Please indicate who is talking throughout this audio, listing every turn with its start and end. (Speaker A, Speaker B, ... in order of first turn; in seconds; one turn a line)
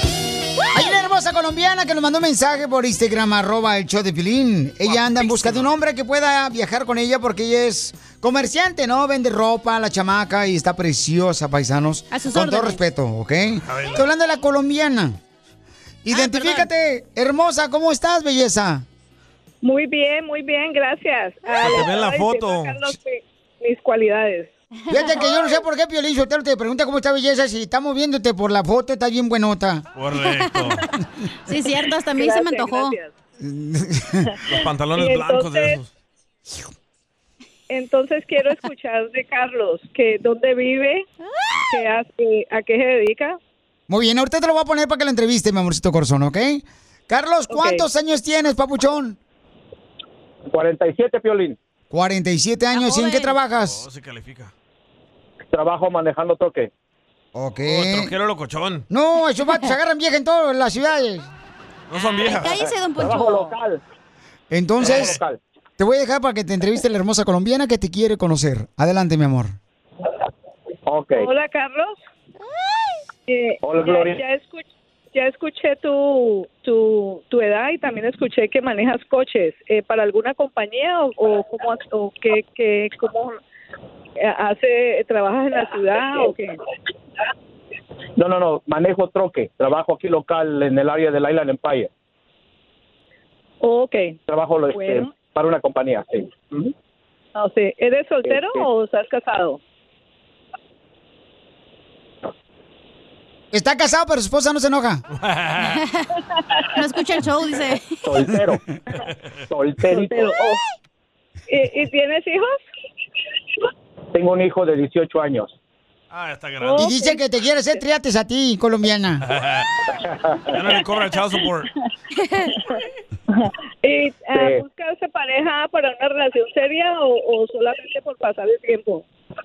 Speaker A: 0.7-15.2
Speaker B: 4.8-5.7
Speaker C: 12.1-12.8
Speaker B: 13.7-14.0
Speaker A: 16.0-18.8
Speaker C: 16.1-16.7
Speaker D: 19.6-24.5
Speaker B: 21.6-22.9
Speaker A: 24.9-29.8
Speaker C: 24.9-25.2
Speaker B: 29.9-30.8
Speaker C: 31.5-33.0
Speaker D: 32.1-33.1
Speaker A: 33.4-34.3
Speaker B: 34.5-35.9
Speaker D: 34.5-35.8
Speaker D: 37.7-41.0
Speaker D: 41.7-43.4
Speaker A: 43.9-49.2
Speaker D: 47.5-47.9
Speaker E: 50.5-51.5
Speaker A: 51.9-53.8
Speaker C: 52.7-53.3
Speaker B: 53.6-54.5
Speaker E: 55.5-56.7
Speaker A: 57.3-58.1
Speaker B: 57.6-58.9
Speaker A: 58.9-61.3
Speaker B: 61.9-62.6
Speaker C: 62.0-63.5
Speaker E: 63.0-63.8
Speaker A: 64.5-65.2
Speaker B: 64.8-65.2
Speaker E: 64.9-65.4
Speaker A: 65.8-69.5
Speaker E: 70.9-71.3
Speaker D: 71.2-72.0
Speaker D: 73.3-83.4
Speaker E: 73.6-74.2
Speaker D: 84.2-86.5
Speaker E: 88.2-91.9
Speaker D: 93.6-94.2
Speaker E: 94.3-96.7
Speaker D: 94.7-95.2
Speaker D: 97.3-99.6
Speaker E: 98.3-98.6
Speaker A: 103.5-105.0
Speaker B: 105.2-105.8
Speaker C: 105.7-106.0
Speaker C: 106.7-108.0
Speaker E: 108.0-108.6
Speaker E: 109.5-110.2
Speaker D: 109.8-110.6
Speaker D: 111.5-112.5
Speaker E: 114.1-115.5
Speaker B: 116.1-116.9
Speaker D: 116.6-117.2
Speaker A: 116.8-119.2
Speaker B: 119.3-119.7
Speaker B: 120.5-121.7
Speaker D: 123.3-129.0